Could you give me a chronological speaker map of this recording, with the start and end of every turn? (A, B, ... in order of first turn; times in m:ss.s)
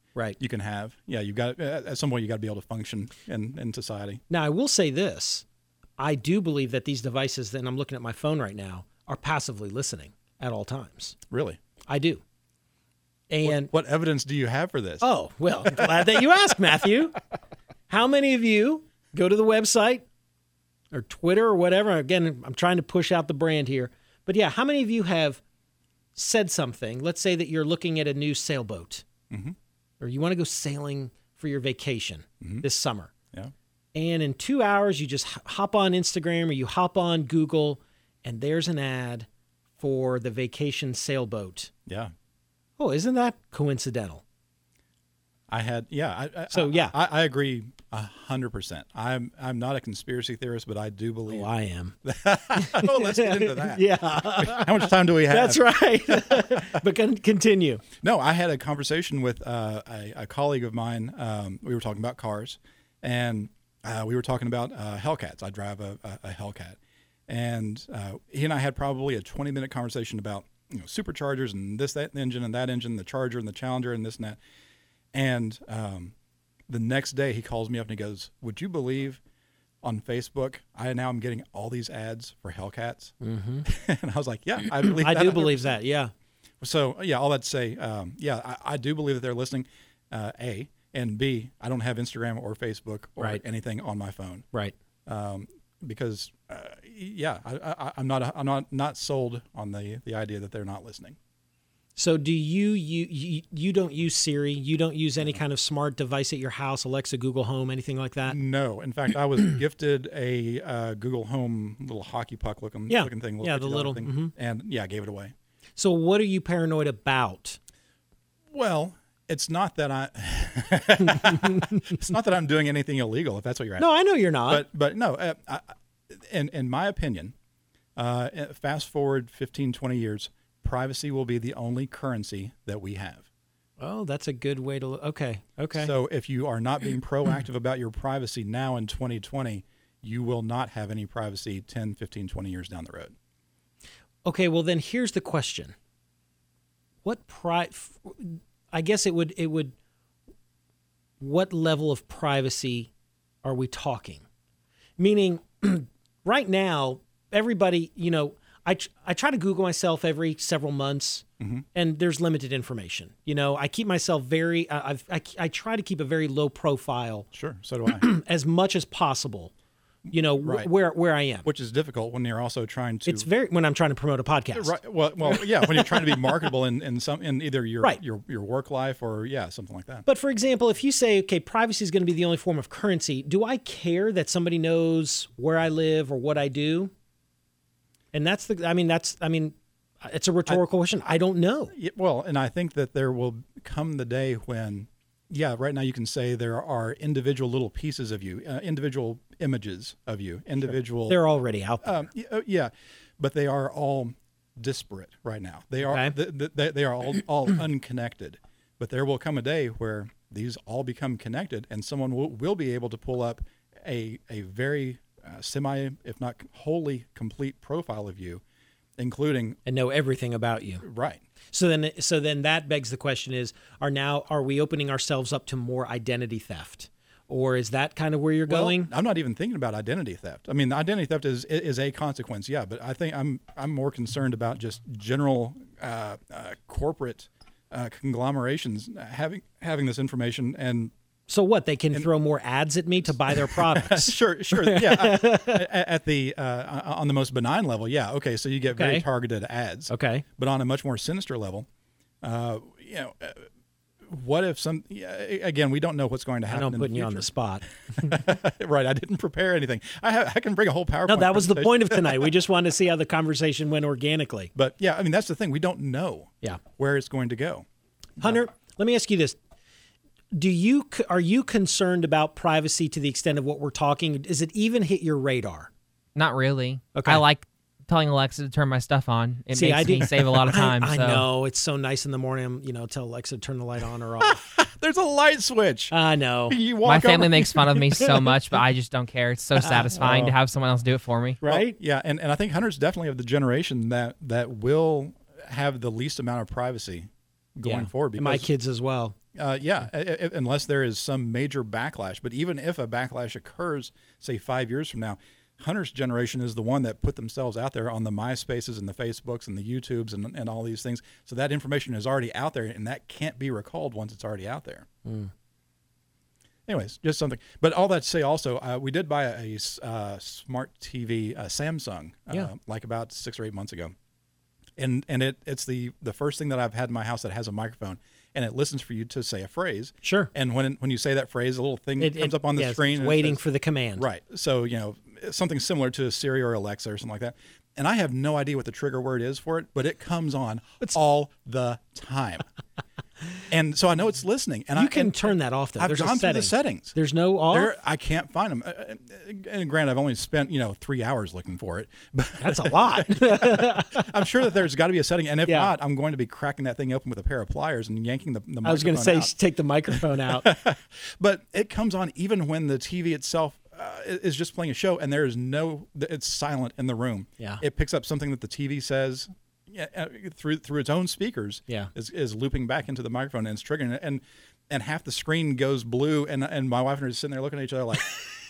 0:00.4-0:04.2 A
0:04.3-0:05.4 B
0:06.0-0:11.2 B
0:11.3-0:11.6 A
0:11.9-0:12.2 B
0:13.3-0:13.7 B
0:13.4-0:15.1 A
0:15.0-0:17.2 B
0:15.7-0:16.1 A
0:17.9-0:20.1 B
0:20.9-0:25.4 B
0:26.1-0:29.0 B
0:29.3-0:29.6 A
0:30.0-0:33.1 B
0:34.0-0:39.3 B
0:39.8-0:41.7 B
0:41.9-0:42.1 A
0:42.8-0:44.2 B
0:45.5-0:51.5 A
0:46.5-0:46.9 B
0:51.3-0:52.0 B
0:52.0-0:56.8 A
0:52.6-0:57.8 B
0:58.0-1:06.8 A
1:07.3-1:14.4 A
1:15.1-1:16.1 A
1:16.7-1:19.2 A
1:19.8-1:25.7 A
1:23.2-1:23.7 B
1:24.8-1:26.1 B
1:26.6-1:34.4 A
1:35.1-1:41.2 A
1:42.0-1:48.4 B
1:48.2-1:55.3 A
1:52.9-1:54.3 B
1:55.8-1:57.6 B
1:58.5-2:03.9 A
2:03.8-2:04.7 B
2:04.5-2:07.3 A
2:08.0-2:13.2 A
2:13.8-2:15.9 B
2:15.8-2:23.1 A
2:24.2-2:25.8 B
2:27.0-2:29.7 B
2:31.2-2:32.9 B
2:33.4-2:34.2 B
2:35.0-2:47.3 B
2:41.4-2:41.6 A
2:47.3-2:48.1 A
2:47.9-2:49.5 B
2:50.1-2:50.7 A
2:50.1-2:51.5 B
2:51.4-2:53.3 A
2:53.1-2:56.4 B
2:54.6-3:00.1 A
3:00.1-3:06.9 B
3:08.1-3:11.7 B
3:11.7-3:21.2 A
3:21.1-3:22.0 B
3:21.8-3:38.4 A
3:25.9-3:26.1 B
3:39.0-3:39.6 A
3:39.7-3:40.8 B
3:40.8-3:41.2 A
3:41.5-3:48.9 B
3:48.5-4:00.9 A
4:01.3-4:05.7 B
4:03.3-4:11.7 A
4:08.7-4:09.0 B
4:09.9-4:10.2 B
4:12.2-4:13.5 A
4:14.0-4:17.3 A
4:16.5-4:18.2 B
4:18.0-4:22.3 A
4:21.1-4:24.5 B
4:24.6-4:27.7 A
4:28.2-4:29.4 B
4:30.3-4:35.7 B
4:36.1-4:41.3 C
4:37.0-4:37.2 B
4:39.5-4:44.4 B
4:40.1-4:40.4 A
4:44.2-4:45.9 A
4:45.9-4:46.6 B
4:46.5-4:48.0 A
4:46.8-4:51.4 C
4:49.6-4:49.9 B
4:50.0-4:50.4 A
4:51.4-4:51.8 B
4:51.4-4:58.5 A
4:57.6-4:59.1 B
4:59.4-5:14.9 A
5:15.0-5:15.3 B
5:16.7-5:24.0 A
5:24.8-5:33.4 A
5:30.0-5:30.3 B
5:32.0-5:34.1 B
5:34.0-5:42.4 A
5:43.5-5:46.9 A
5:44.8-5:47.7 B
5:47.5-5:59.3 A
5:52.4-5:54.1 B
5:55.4-5:55.7 B
5:58.6-6:00.5 B
5:59.9-6:18.1 A